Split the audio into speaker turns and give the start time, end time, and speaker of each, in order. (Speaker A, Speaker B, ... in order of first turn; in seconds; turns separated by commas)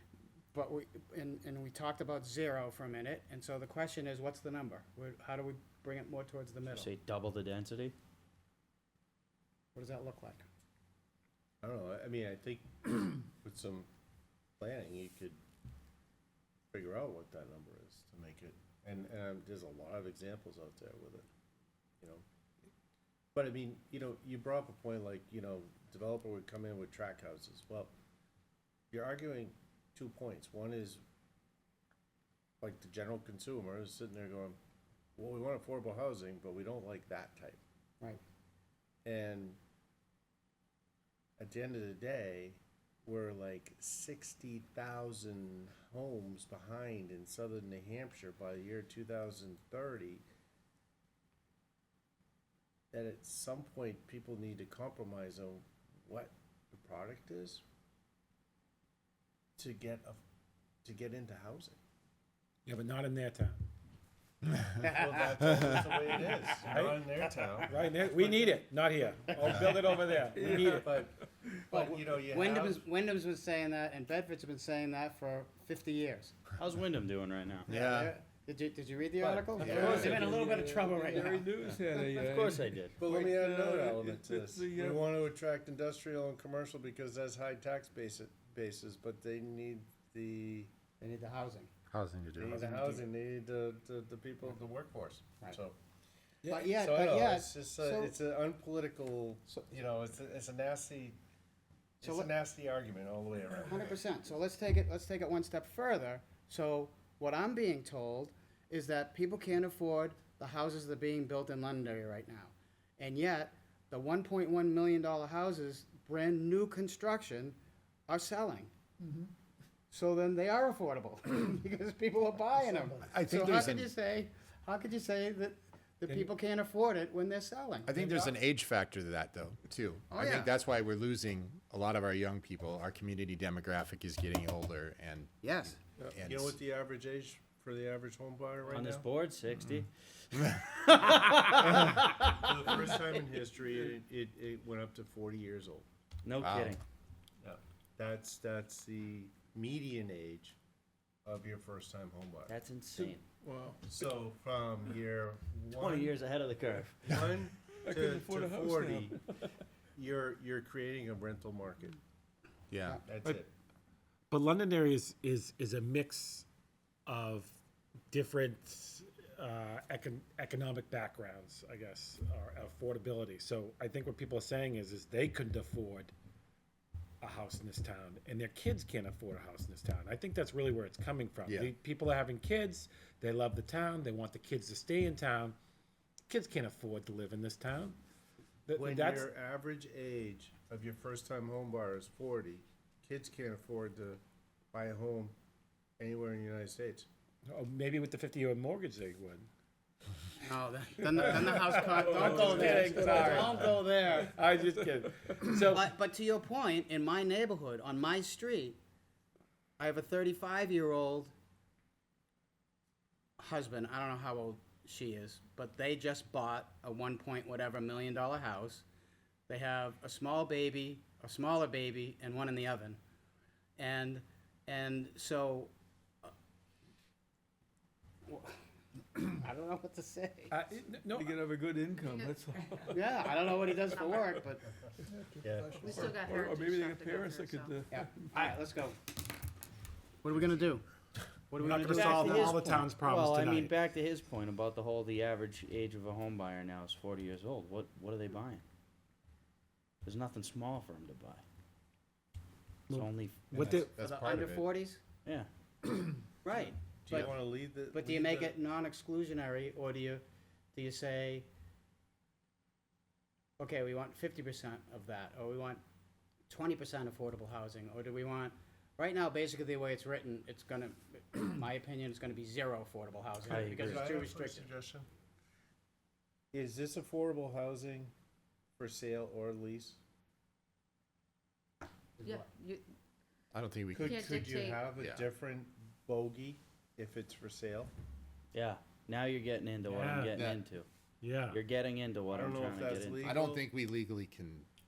Speaker A: 0.5-6.9, Speaker B: 6.7-7.9, Speaker A: 9.7-10.4, Speaker C: 11.6-13.9, Speaker C: 14.6-15.4, Speaker C: 16.7-21.2, Speaker C: 23.3-27.9, Speaker C: 28.9-31.0, Speaker C: 32.6-34.6, Speaker C: 35.2-37.6, Speaker C: 39.0-39.6, Speaker C: 41.4-50.2, Speaker C: 52.9-57.6, Speaker C: 59.6-60.2, Speaker C: 60.8-61.8, Speaker D: 62.6-63.6, Speaker A: 64.8-65.4, Speaker C: 64.8-67.7, Speaker D: 66.7-67.1, Speaker A: 67.2-68.5, Speaker D: 67.6-70.9, Speaker A: 69.3-69.9, Speaker E: 70.3-71.6, Speaker A: 70.5-71.0, Speaker C: 70.5-71.1, Speaker C: 71.7-72.8, Speaker A: 71.7-76.3, Speaker B: 76.6-77.7, Speaker F: 77.7-78.1, Speaker A: 77.7-82.0, Speaker C: 79.2-80.0, Speaker B: 79.5-80.4, Speaker E: 79.6-85.1, Speaker F: 79.6-80.2, Speaker B: 81.6-83.0, Speaker C: 83.0-90.7, Speaker A: 91.0-91.7, Speaker F: 91.9-92.7, Speaker C: 92.4-95.8, Speaker A: 96.5-98.1, Speaker C: 96.6-101.2, Speaker C: 102.0-104.0, Speaker A: 102.0-102.3, Speaker A: 103.6-117.6, Speaker A: 118.1-118.7, Speaker A: 119.9-128.0, Speaker F: 123.0-123.9, Speaker F: 127.8-135.5, Speaker D: 128.0-128.3, Speaker A: 130.1-130.5, Speaker A: 135.4-135.8, Speaker F: 136.1-136.6, Speaker C: 136.2-139.1, Speaker B: 138.7-142.9, Speaker C: 141.6-145.8, Speaker B: 146.2-146.8, Speaker F: 146.4-146.8, Speaker C: 147.4-150.6, Speaker C: 151.2-152.5, Speaker B: 152.5-153.2, Speaker E: 153.0-153.8, Speaker C: 153.8-156.2, Speaker B: 155.7-157.1, Speaker C: 157.1-159.2, Speaker E: 157.7-159.6, Speaker C: 159.9-162.0, Speaker F: 162.7-163.0, Speaker C: 163.0-163.5, Speaker D: 164.3-166.4, Speaker D: 167.1-167.6, Speaker D: 168.1-176.1, Speaker D: 177.2-185.5, Speaker F: 181.4-181.7, Speaker D: 186.3-188.0, Speaker D: 188.7-189.3, Speaker C: 188.7-194.2, Speaker C: 194.7-195.3, Speaker C: 196.0-197.1, Speaker D: 197.5-199.5, Speaker A: 200.4-204.3, Speaker D: 201.1-205.9, Speaker E: 201.3-204.2, Speaker A: 205.7-208.8, Speaker A: 209.8-211.3, Speaker A: 213.4-218.8, Speaker A: 219.5-223.0, Speaker A: 223.8-226.3, Speaker A: 228.3-228.6, Speaker A: 229.1-230.6, Speaker D: 230.5-231.3, Speaker E: 231.1-233.5, Speaker G: 232.0-232.4, Speaker A: 232.9-234.7, Speaker G: 233.9-234.3, Speaker E: 235.1-238.5, Speaker C: 235.4-236.1, Speaker G: 235.7-237.8, Speaker A: 237.9-239.0, Speaker A: 240.2-240.8, Speaker A: 241.5-242.9, Speaker D: 241.6-243.7, Speaker B: 242.1-242.5, Speaker B: 243.0-248.6, Speaker B: 250.0-251.4, Speaker D: 252.9-253.9, Speaker B: 252.9-253.5, Speaker F: 253.5-254.7, Speaker A: 254.0-255.0, Speaker B: 256.4-256.8, Speaker A: 256.5-257.3, Speaker C: 257.1-258.6, Speaker A: 257.9-261.5, Speaker A: 263.6-265.8, Speaker A: 266.5-274.7, Speaker B: 273.5-274.1, Speaker C: 273.5-275.1, Speaker C: 276.5-278.1, Speaker C: 278.8-280.0, Speaker A: 282.2-282.5, Speaker G: 282.2-282.8, Speaker F: 283.5-284.3, Speaker C: 283.9-287.9, Speaker G: 283.9-284.9, Speaker F: 284.9-285.3, Speaker B: 288.5-290.9, Speaker D: 289.9-290.4, Speaker F: 290.3-290.6, Speaker D: 291.2-291.6, Speaker B: 291.5-293.3, Speaker C: 292.3-293.6, Speaker F: 293.2-294.7